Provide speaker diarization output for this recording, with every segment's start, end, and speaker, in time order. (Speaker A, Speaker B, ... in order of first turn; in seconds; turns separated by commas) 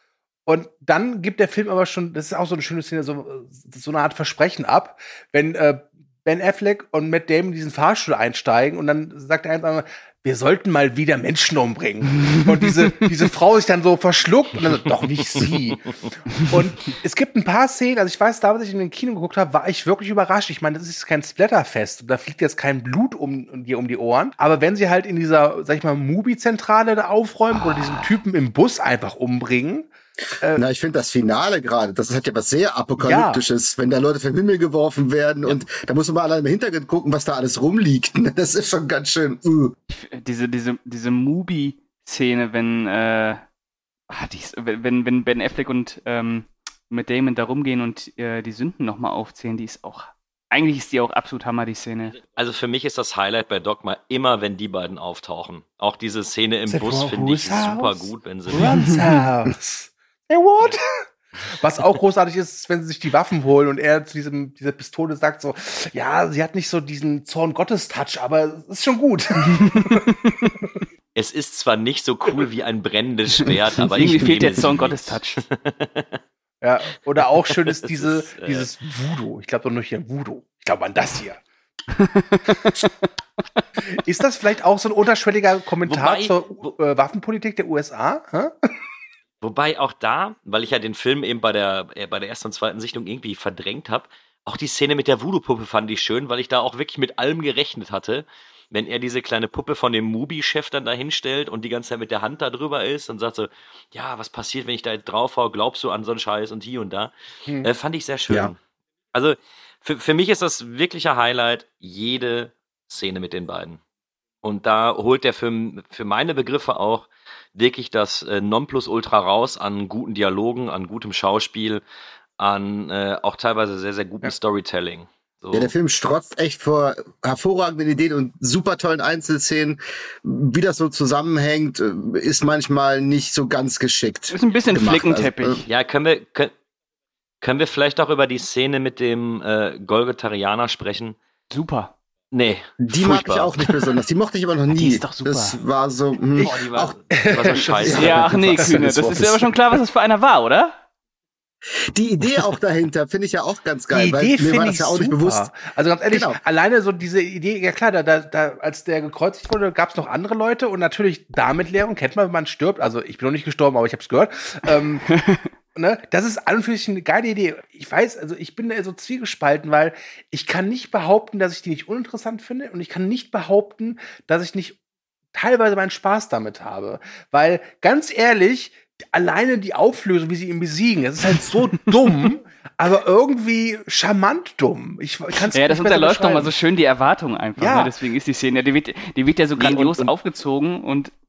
Speaker A: 0.5-30.6, Speaker B: 30.5-39.7, Speaker A: 33.0-33.4, Speaker C: 39.9-43.4, Speaker C: 44.1-52.1, Speaker D: 52.3-59.0, Speaker A: 56.7-60.8, Speaker A: 61.6-70.0, Speaker C: 69.6-70.5, Speaker D: 71.1-76.2, Speaker C: 73.9-75.4, Speaker A: 76.6-81.4, Speaker D: 77.2-78.7, Speaker C: 81.9-83.1, Speaker A: 83.9-88.7, Speaker D: 85.8-86.7, Speaker D: 89.4-108.6, Speaker D: 109.1-113.8, Speaker D: 114.4-121.8, Speaker D: 122.4-125.7, Speaker B: 125.5-135.6, Speaker C: 134.3-135.7, Speaker D: 135.7-136.5, Speaker D: 137.4-141.2, Speaker C: 141.5-141.9, Speaker D: 142.3-143.5, Speaker B: 142.8-147.0, Speaker C: 144.7-145.6, Speaker D: 146.3-148.4, Speaker A: 147.3-149.1, Speaker B: 147.6-149.5, Speaker C: 147.9-150.8, Speaker B: 151.9-155.5, Speaker A: 153.9-165.1, Speaker B: 156.1-156.4, Speaker C: 165.1-165.5, Speaker A: 165.7-174.8, Speaker A: 175.3-186.5, Speaker C: 185.5-191.1, Speaker A: 187.6-187.9, Speaker D: 189.6-190.1